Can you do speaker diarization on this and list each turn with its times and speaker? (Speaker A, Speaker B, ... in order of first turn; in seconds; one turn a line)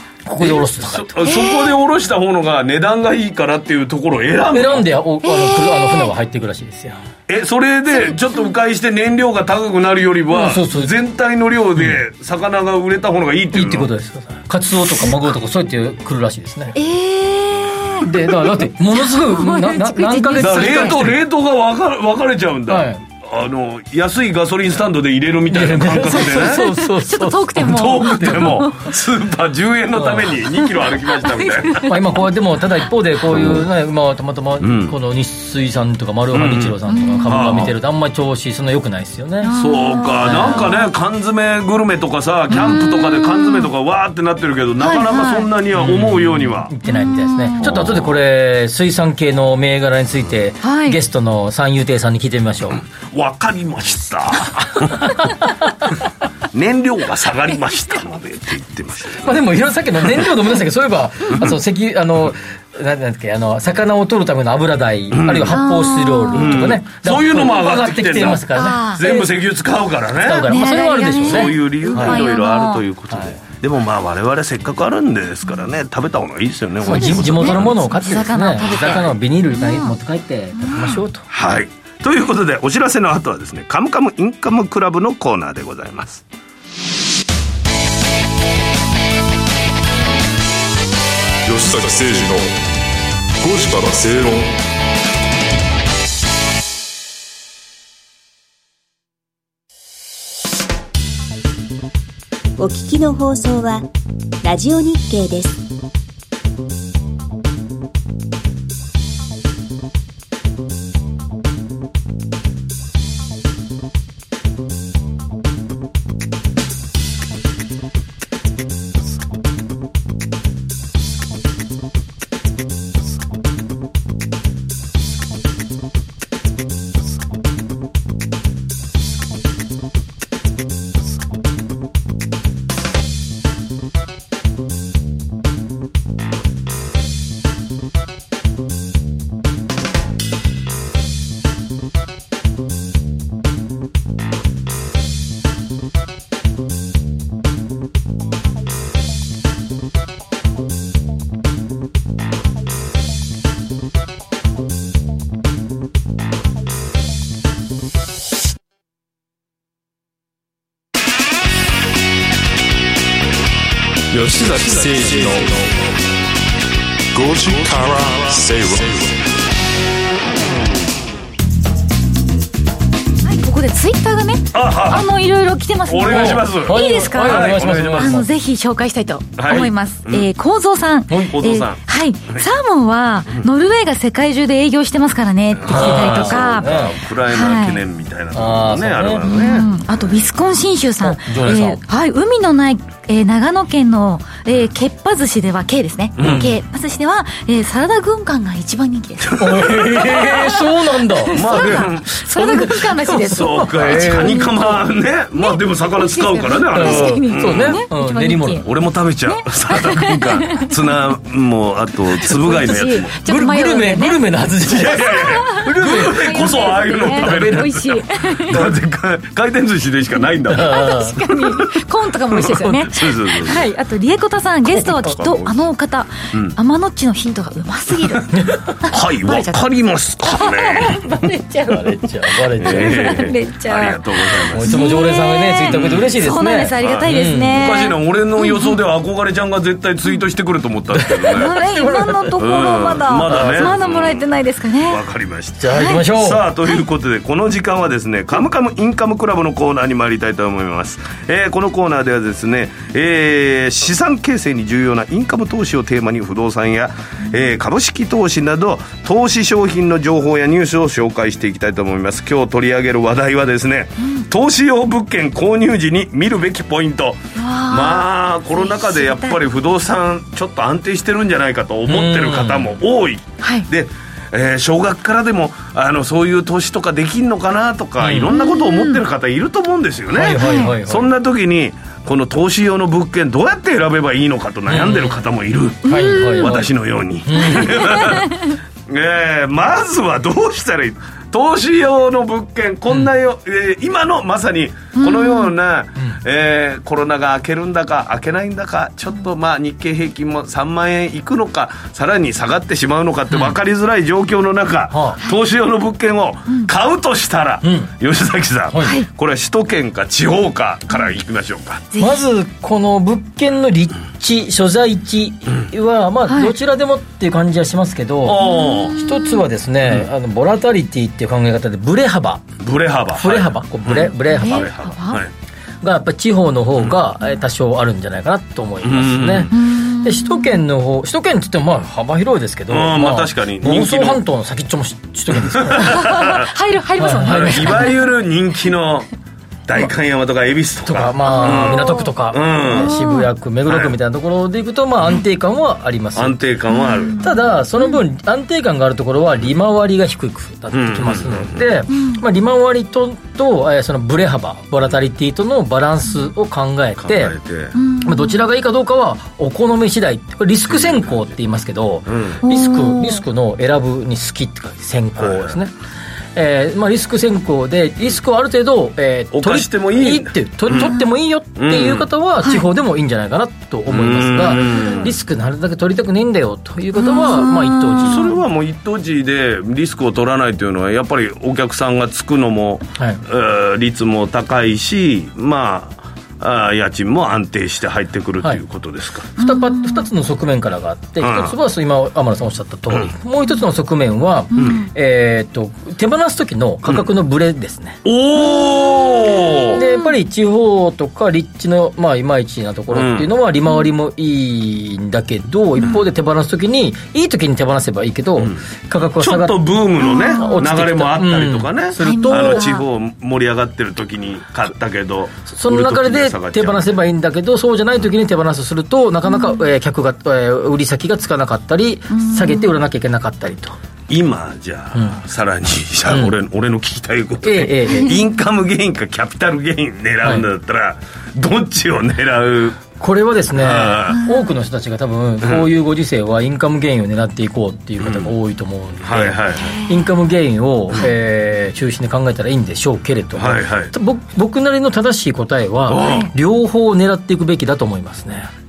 Speaker A: 0.2-1.2
Speaker B: 0.4-4.9
Speaker C: 1.2-1.7
Speaker A: 4.5-7.0
Speaker C: 5.2-6.1
Speaker B: 7.3-13.9
Speaker A: 10.3-10.9
Speaker A: 13.5-16.8
Speaker C: 16.7-21.0
Speaker A: 18.0-21.2
Speaker B: 20.4-26.7
Speaker A: 22.7-23.0
Speaker A: 25.5-28.7
Speaker C: 26.1-28.9
Speaker B: 27.6-31.9
Speaker A: 29.9-30.3
Speaker C: 31.2-31.9
Speaker A: 31.8-39.5
Speaker B: 33.3-33.6
Speaker B: 34.6-35.0
Speaker B: 36.3-37.7
Speaker C: 36.9-37.3
Speaker C: 39.4-40.9
Speaker B: 39.5-46.7
Speaker A: 40.2-40.7
Speaker C: 42.5-43.7
Speaker C: 44.8-45.5
Speaker A: 45.8-52.8
Speaker C: 46.8-47.8
Speaker B: 47.6-48.1
Speaker C: 50.6-51.0
Speaker B: 52.9-55.2
Speaker A: 55.0-55.5
Speaker B: 56.5-59.4
Speaker A: 59.2-69.3
Speaker B: 65.1-65.6
Speaker C: 65.5-66.7
Speaker B: 66.3-70.6
Speaker C: 68.5-69.2
Speaker A: 70.2-72.2
Speaker C: 70.5-72.8
Speaker B: 71.1-77.9
Speaker A: 73.1-73.4
Speaker A: 76.8-81.2
Speaker C: 76.8-79.9
Speaker C: 80.5-81.0
Speaker B: 81.3-86.2
Speaker D: 91.4-92.5
Speaker D: 93.4-94.5
Speaker E: 102.6-103.9
Speaker E: 104.4-105.6
Speaker D: 164.1-165.9
Speaker D: 167.1-169.2
Speaker C: 173.2-187.8
Speaker B: 174.5-175.1
Speaker B: 175.8-178.2
Speaker A: 176.0-178.3
Speaker B: 179.4-180.3
Speaker B: 181.2-182.5
Speaker B: 185.6-189.7
Speaker A: 185.7-186.9
Speaker A: 188.3-189.3
Speaker C: 189.2-208.7
Speaker A: 191.0-191.8
Speaker B: 196.2-196.5
Speaker A: 196.2-196.5
Speaker B: 199.2-200.5
Speaker A: 199.3-201.8
Speaker B: 201.3-202.2
Speaker A: 202.3-204.7
Speaker B: 203.2-207.8
Speaker A: 206.7-208.6
Speaker B: 208.6-213.1
Speaker C: 209.3-210.7
Speaker A: 212.2-217.7
Speaker C: 212.3-214.2
Speaker B: 214.7-220.9
Speaker C: 215.0-218.7
Speaker A: 220.5-221.2
Speaker C: 220.6-229.6
Speaker B: 222.3-223.6
Speaker A: 222.5-222.8
Speaker B: 224.8-225.5
Speaker A: 228.3-228.6
Speaker B: 228.8-231.1
Speaker C: 230.3-231.0
Speaker A: 231.0-233.3
Speaker B: 232.6-234.9
Speaker C: 232.6-238.8
Speaker A: 234.5-237.5
Speaker B: 235.6-236.2
Speaker B: 236.8-241.6
Speaker A: 240.9-242.4
Speaker C: 241.3-245.0
Speaker B: 242.4-244.3
Speaker A: 243.3-243.7
Speaker B: 244.8-311.9
Speaker A: 245.6-246.4
Speaker C: 245.7-246.0
Speaker C: 267.4-269.4
Speaker A: 271.9-272.7
Speaker A: 278.0-278.3
Speaker C: 278.3-279.0
Speaker A: 280.1-281.1
Speaker C: 280.3-280.7
Speaker A: 284.7-285.1
Speaker C: 285.9-286.5
Speaker A: 285.9-286.7
Speaker A: 287.2-288.0
Speaker C: 287.4-288.3
Speaker C: 294.9-295.5
Speaker A: 304.9-305.2
Speaker A: 307.6-307.9
Speaker A: 308.7-309.0
Speaker C: 311.9-312.2
Speaker A: 312.0-318.4
Speaker C: 316.3-316.5
Speaker B: 318.2-319.1
Speaker C: 318.4-319.3
Speaker A: 319.0-322.5
Speaker B: 322.6-325.3
Speaker A: 323.1-324.7
Speaker C: 324.2-325.2
Speaker A: 325.8-336.4
Speaker B: 328.8-329.5
Speaker C: 329.5-330.6
Speaker B: 332.7-334.2
Speaker B: 335.3-336.5
Speaker C: 335.8-338.0
Speaker A: 337.0-337.9
Speaker B: 337.2-339.1
Speaker B: 339.7-342.9
Speaker A: 340.9-346.4
Speaker C: 341.3-342.1
Speaker C: 342.6-343.3
Speaker B: 343.7-343.9
Speaker B: 346.1-347.3
Speaker C: 346.7-348.0
Speaker A: 347.2-357.4
Speaker B: 350.7-351.7
Speaker C: 351.9-352.2
Speaker B: 357.0-357.7
Speaker C: 357.7-358.4
Speaker A: 358.0-365.7
Speaker B: 360.7-361.3
Speaker B: 362.1-362.4
Speaker C: 362.4-363.2
Speaker B: 365.2-365.6
Speaker A: 366.3-378.3
Speaker B: 369.3-370.9
Speaker B: 371.6-372.1
Speaker B: 373.9-375.1
Speaker C: 374.6-375.0
Speaker C: 376.9-378.3
Speaker B: 378.0-389.3
Speaker A: 389.4-398.0
Speaker C: 389.4-390.1
Speaker B: 391.2-391.5
Speaker C: 394.5-394.9
Speaker B: 398.0-399.8
Speaker C: 399.7-400.1
Speaker A: 399.7-412.6
Speaker B: 402.9-403.3
Speaker B: 409.2-416.9
Speaker C: 410.0-410.6
Speaker C: 412.0-412.9
Speaker A: 415.5-423.8
Speaker C: 419.3-419.6
Speaker C: 422.1-422.7
Speaker B: 424.1-432.8
Speaker A: 424.9-425.2
Speaker A: 426.1-426.3
Speaker A: 427.4-428.2
Speaker A: 433.0-448.5
Speaker B: 433.5-434.2
Speaker C: 434.1-434.5
Speaker B: 435.4-435.7
Speaker B: 438.0-438.3
Speaker B: 439.0-439.8
Speaker C: 439.6-440.0
Speaker B: 443.4-443.9
Speaker B: 445.9-446.3
Speaker C: 446.0-446.3